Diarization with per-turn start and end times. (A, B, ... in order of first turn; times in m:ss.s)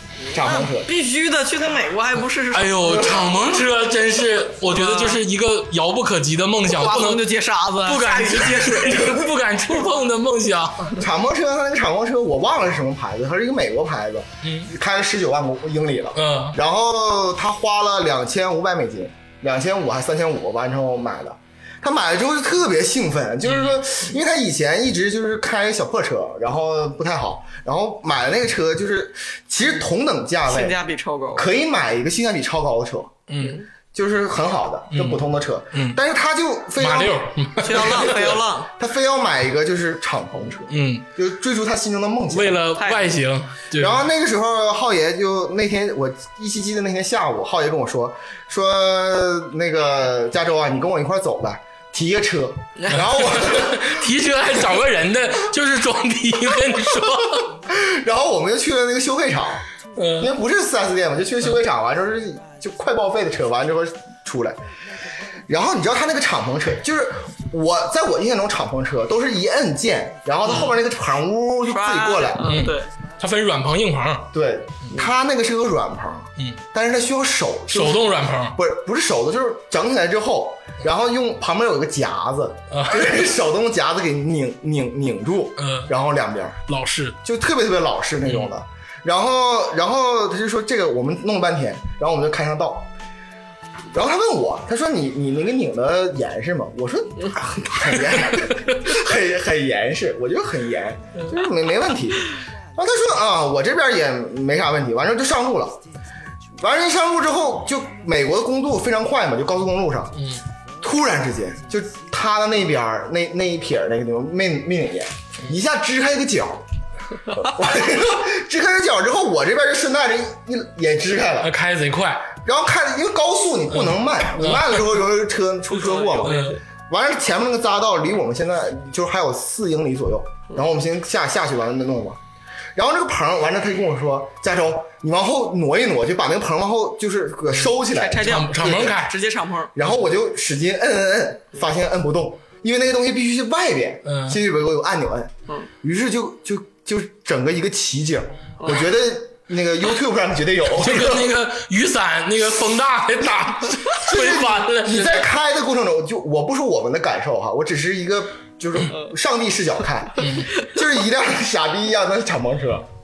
0:00.2-0:03.5 A
0:00.3-0:00.9 B
0:02.5-0:07.2 C
0:04.7-0:05.2 A
0:06.7-0:09.3 A
0:07.8-0:11.0 C
0:11.0-0:30.8 B
0:14.4-0:14.7 C
0:16.2-0:16.6 C
0:23.4-0:23.8 C
0:30.5-0:31.5 A
0:31.3-0:33.2 B
0:33.3-0:33.6 C
0:33.9-0:42.6 B
0:34.9-0:36.0 C
0:36.8-0:38.2 C
0:37.6-0:38.7 A
0:40.7-0:41.0 C
0:42.3-0:44.0 C
0:42.8-0:43.2 A
0:43.8-0:54.0 B
0:52.9-0:57.5 C
0:57.4-0:59.6 B
1:00.0-1:00.3 C
1:00.2-1:04.6 B
1:05.5-1:12.6 B
1:11.7-1:12.9 A
1:12.4-1:14.3 C
1:14.3-1:26.6 B
1:17.7-1:18.6 C
1:22.7-1:23.1 C
1:25.6-1:25.9 C
1:26.7-1:27.2 C
1:27.2-1:32.9 B
1:33.9-1:45.8 B
1:46.6-1:50.2 B
1:50.8-1:56.6 B
1:57.3-2:01.5 B
2:01.4-2:02.3 C
2:02.4-2:12.2 B
2:03.7-2:04.9 C
2:05.8-2:06.4 A
2:06.2-2:06.6 C
2:12.7-2:18.9 B
2:17.8-2:19.7 A
2:18.2-2:19.1 C
2:19.7-2:31.3 B
2:24.0-2:24.4 C
2:28.6-2:28.9 A
2:30.7-2:35.3 C
2:33.9-2:42.9 B
2:40.2-2:40.5 C